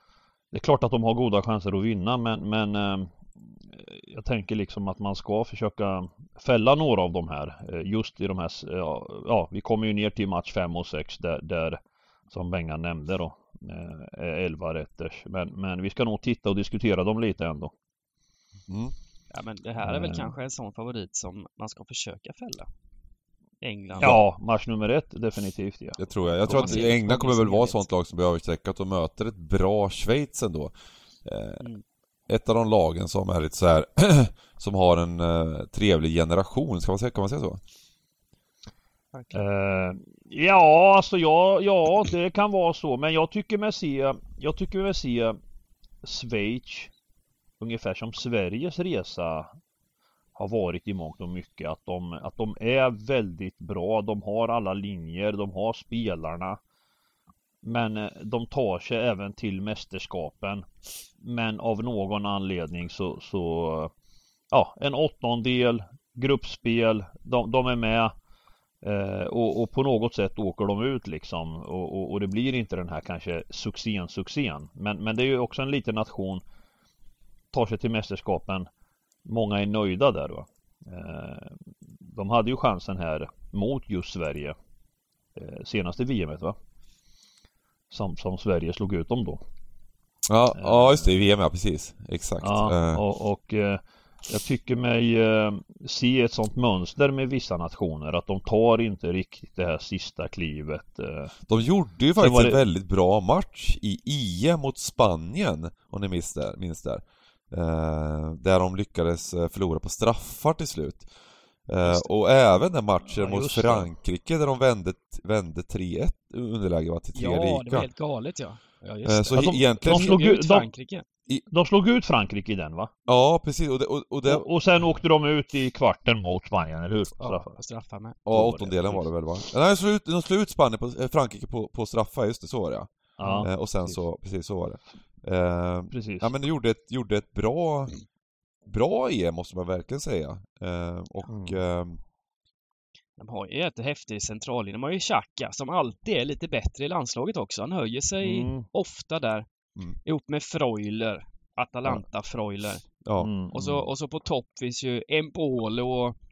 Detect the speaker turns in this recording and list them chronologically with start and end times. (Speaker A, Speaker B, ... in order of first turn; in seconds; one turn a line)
Speaker A: 0.5-17.7
Speaker B: 18.7-18.9
Speaker C: 19.3-22.7
Speaker A: 19.8-20.3
Speaker C: 23.6-24.2
Speaker A: 24.0-26.9
Speaker B: 26.0-30.7
Speaker C: 26.4-27.9
Speaker B: 31.2-31.6
Speaker B: 32.3-37.6
Speaker C: 39.1-39.4
Speaker A: 39.3-45.4
Speaker A: 46.0-46.9
Speaker A: 47.6-49.5
Speaker A: 50.4-56.6
Speaker A: 57.6-60.7
Speaker A: 61.2-63.9
Speaker A: 64.5-68.1
Speaker A: 68.8-76.4
Speaker A: 77.5-78.7
Speaker A: 79.2-84.5
Speaker A: 85.3-86.5
Speaker A: 87.9-89.4
Speaker B: 90.3-93.0
Speaker A: 90.5-91.1
Speaker A: 92.4-101.3
Speaker B: 101.5-111.1
Speaker A: 102.2-102.6
Speaker B: 111.7-117.9
Speaker A: 113.1-113.9
Speaker C: 117.2-121.0
Speaker B: 119.0-120.2
Speaker A: 119.3-120.7
Speaker A: 121.5-122.9
Speaker B: 123.1-124.5
Speaker A: 124.3-127.5
Speaker C: 127.2-129.0
Speaker B: 128.3-137.9
Speaker A: 133.2-134.0
Speaker A: 135.9-136.3
Speaker B: 138.7-142.0
Speaker A: 141.3-141.6
Speaker C: 143.2-149.5
Speaker A: 148.2-148.7
Speaker C: 150.1-152.9
Speaker B: 153.0-153.3
Speaker A: 153.2-153.9
Speaker C: 153.5-156.2